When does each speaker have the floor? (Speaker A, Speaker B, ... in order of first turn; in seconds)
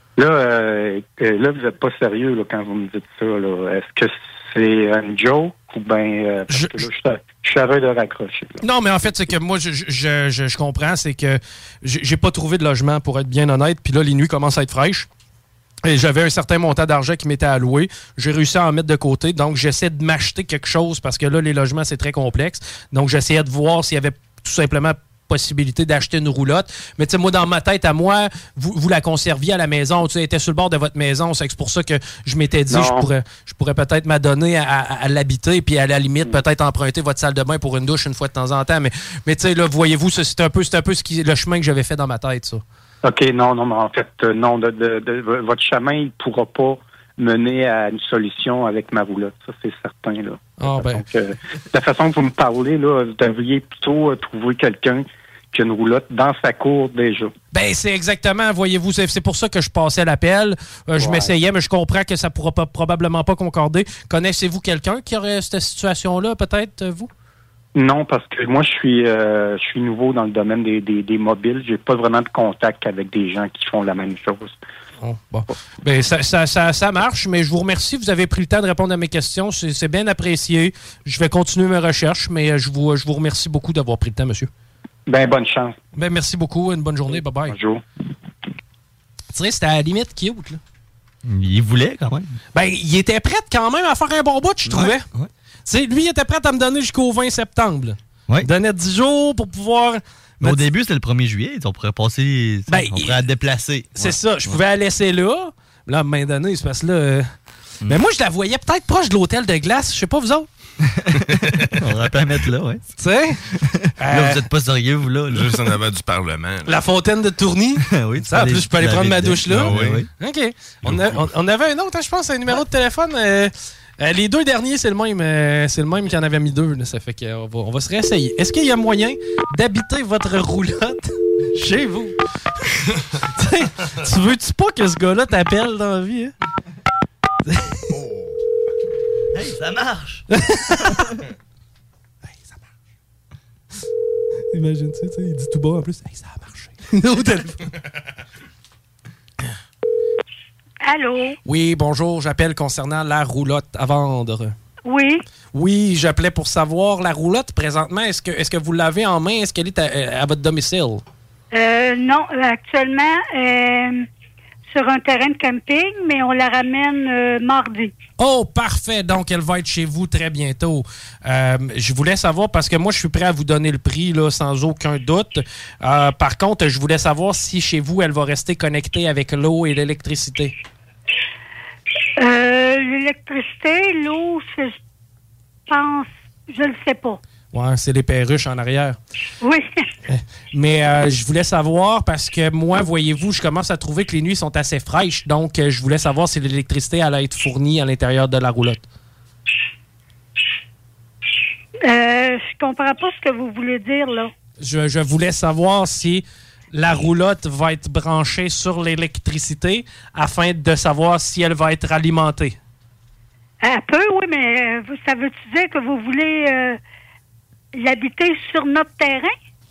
Speaker A: 0.2-8.6, 32.7-33.1, 43.0-57.3, 61.0-61.3, 67.8-74.5, 85.1-85.8, 87.1-87.8
Speaker B: 6.5-6.8, 8.6-15.1, 15.8-42.6, 50.6-51.0, 57.5-67.1, 75.0-84.5, 85.9-87.5, 89.3-90.6, 92.5-95.0, 95.7-100.6, 102.7-103.2, 104.0-107.3, 107.9-110.5, 113.0-113.4, 114.0-114.4, 116.6-132.1, 133.3-136.3, 137.5-137.8, 140.3-141.0, 144.5-147.7, 151.4-154.5, 155.5-161.0, 168.2-180.5, 187.5-189.0, 190.1-198.8, 204.6-212.6
Speaker C: 91.2-92.3, 94.7-95.3, 100.4-104.6, 110.8-112.8, 113.5-115.7, 117.8-120.1, 139.3-140.2
Speaker D: 115.3-116.7, 119.5-120.0, 120.8-121.2
Speaker E: 150.8-151.4, 154.8-155.2, 161.5-164.0, 164.7-167.9, 182.2-184.8, 185.7-187.2, 189.4-189.7, 201.8-204.3, 213.6-216.8, 217.7-219.3